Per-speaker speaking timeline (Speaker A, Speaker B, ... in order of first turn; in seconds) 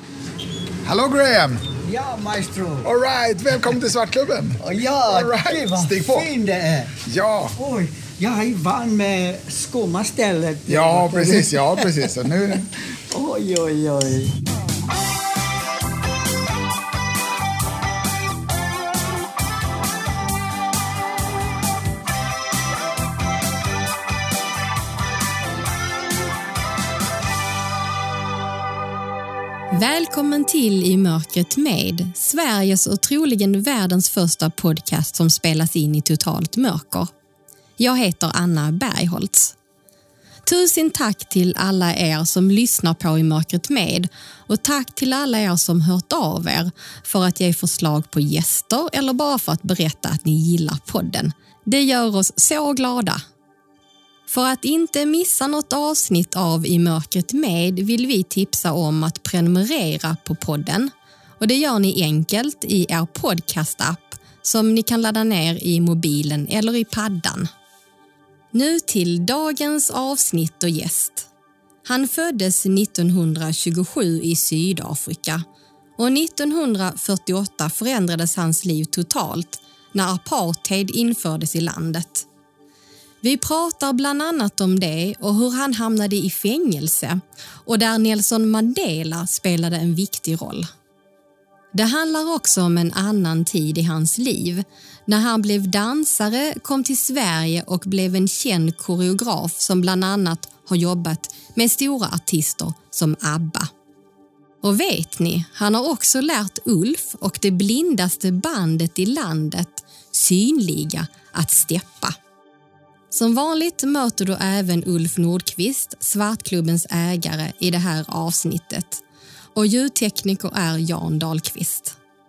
Speaker A: 0.8-1.6, 2.8-6.3, 7.0-7.5, 10.7-12.7
Speaker B: 1.8-2.9, 4.6-6.9, 7.5-11.9, 13.1-14.4
Speaker C: 29.7-37.1, 37.8-39.5, 40.5-53.2, 54.3-67.5, 68.5-71.3, 71.8-75.4, 76.0-82.2, 83.2-90.7, 91.7-103.7, 104.6-112.2, 113.1-119.0, 119.5-122.0